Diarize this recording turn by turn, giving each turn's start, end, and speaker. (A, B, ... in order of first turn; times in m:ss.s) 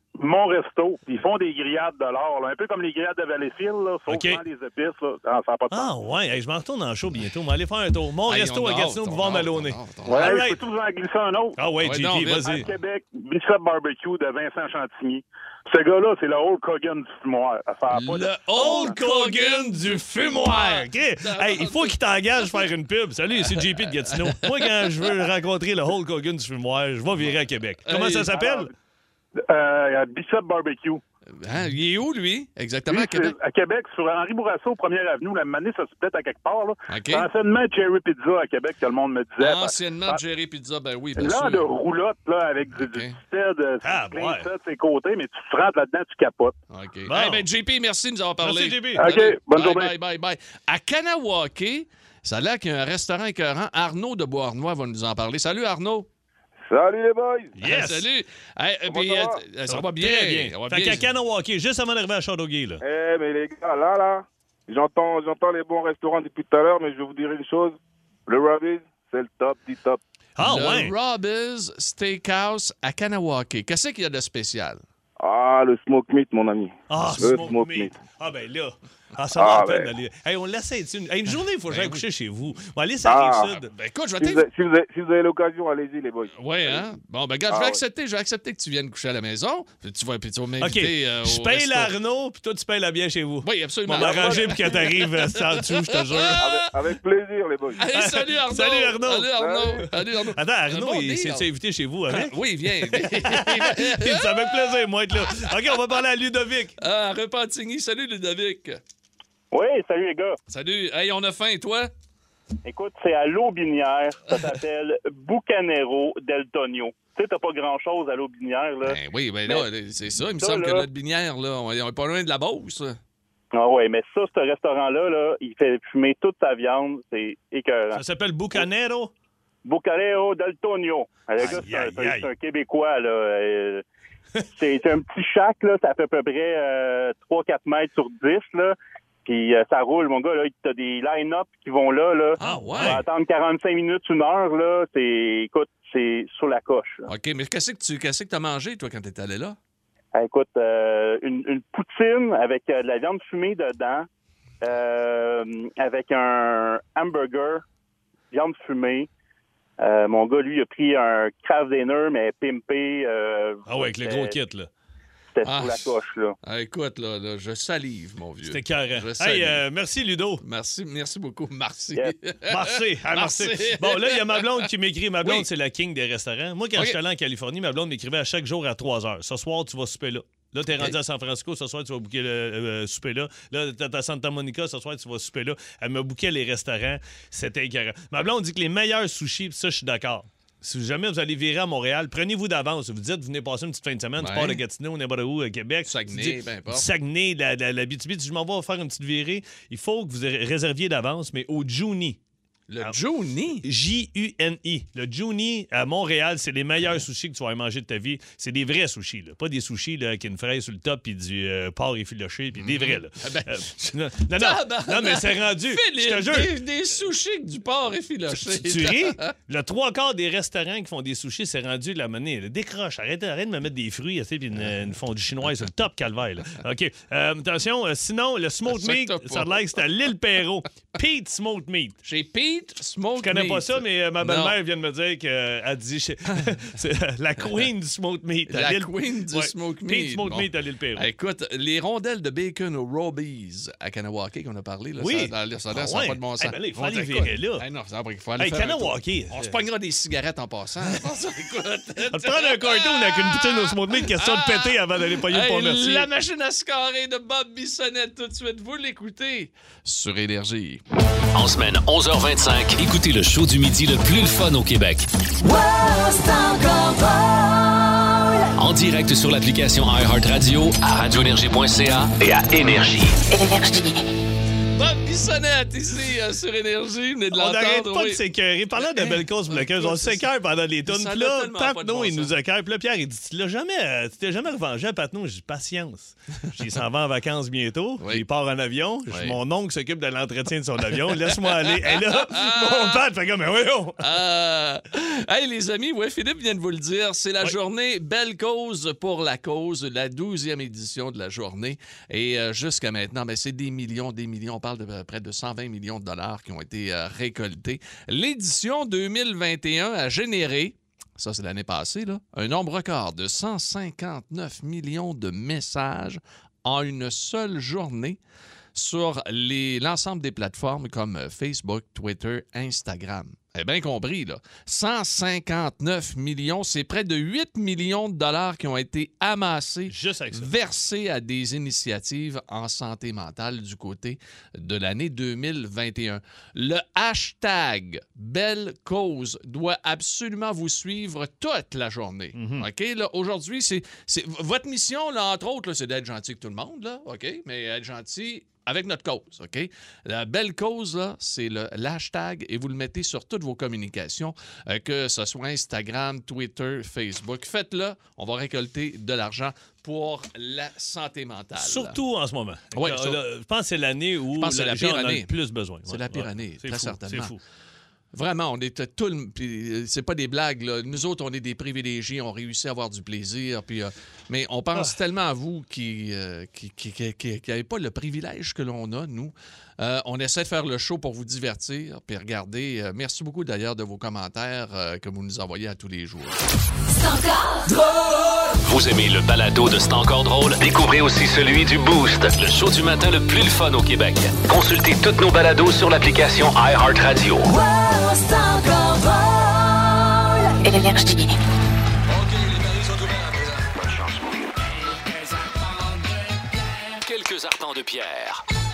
0:00.2-0:06.0 A
0:04.1-0:04.4 B
0:05.7-0:10.6 B
0:08.3-0:10.4 C
0:10.1-0:11.6 A
0:11.6-0:12.7 B
0:11.8-0:12.7 C
0:12.4-0:18.3 A
0:17.9-0:22.0 C
0:18.6-0:28.7 B
0:27.9-0:28.6 C
0:29.5-0:31.0 A
0:31.4-0:33.4 C
0:32.9-0:40.2 A
0:36.9-0:37.3 C
0:39.4-0:41.7 C
0:41.2-0:46.6 A
0:42.7-0:43.2 C
0:43.8-0:44.5 B
0:46.7-0:56.1 C
0:47.1-0:47.5 B
0:48.4-0:49.0 B
0:49.0-0:49.9 A
0:56.7-0:57.6 D
0:57.6-0:58.1 B
0:57.6-1:01.1 C
0:58.9-0:59.4 D
0:59.7-1:02.8 B
1:02.8-1:10.0 D
1:10.4-1:10.9 B
1:10.4-1:14.8 C
1:15.2-1:18.0 D
1:16.9-1:23.7 B
1:19.3-1:19.9 D
1:21.7-1:22.0 C
1:23.0-1:23.5 D
1:23.7-1:24.5 C
1:24.2-1:26.8 D
1:26.4-1:31.9 C
1:27.5-1:27.8 D
1:30.6-1:36.6 B
1:33.4-1:36.7 C
1:33.9-1:34.7 D
1:36.4-1:37.8 D
1:37.8-1:41.5 C
1:37.9-1:46.7 B
1:39.3-1:39.8 D
1:42.1-1:44.7 C
1:46.8-1:48.8 C
1:49.5-1:50.4 E
1:50.5-1:51.9 C
1:52.6-1:59.6 E
1:58.8-2:03.0 C
2:00.4-2:00.8 E
2:03.5-2:08.0 E
2:07.9-2:09.1 B
2:09.6-2:13.8 E
2:11.4-2:12.3 B
2:14.5-2:27.1 E
2:22.4-2:23.0 C
2:22.4-2:23.0 B
2:27.1-2:29.6 C
2:30.1-2:34.1 E
2:34.6-2:37.6 E
2:38.3-2:39.1 E
2:39.8-2:44.4 E
2:43.7-2:44.7 B
2:45.4-2:46.4 E
2:45.4-2:49.6 C
2:48.4-2:50.4 B
2:50.4-2:54.7 C
2:52.5-3:22.2 B
3:14.2-3:14.6 C
3:15.8-3:16.9 C
3:22.7-3:23.6 C
3:23.6-3:36.6 B
3:32.6-3:39.3 C
3:38.3-3:52.0 B
3:48.7-3:49.6 C
3:52.0-3:54.6 C
3:53.2-4:01.1 B
3:58.5-4:20.8 C
4:05.0-4:07.6 B
4:08.4-4:09.6 B
4:12.1-4:16.1 B
4:21.3-4:25.1 F
4:25.4-4:28.5 G
4:28.6-4:33.2 F
4:33.4-4:33.9 G
4:34.8-4:38.2 C
4:37.3-4:54.1 B
4:38.8-4:40.2 C
4:40.8-4:42.3 C
4:48.0-4:48.2 C
4:49.1-4:49.4 C
4:51.7-4:53.0 C
4:54.0-5:18.2 C
5:18.8-6:02.0 C
5:29.9-5:30.5 B
5:42.4-5:42.7 B
6:01.6-6:07.4 B
6:02.7-6:03.2 C
6:04.4-6:05.3 C
6:05.9-6:07.3 C
6:08.1-6:26.4 C
6:26.9-6:28.5 G
6:28.6-6:37.5 F
6:37.5-6:41.3 G
6:42.3-6:48.4 F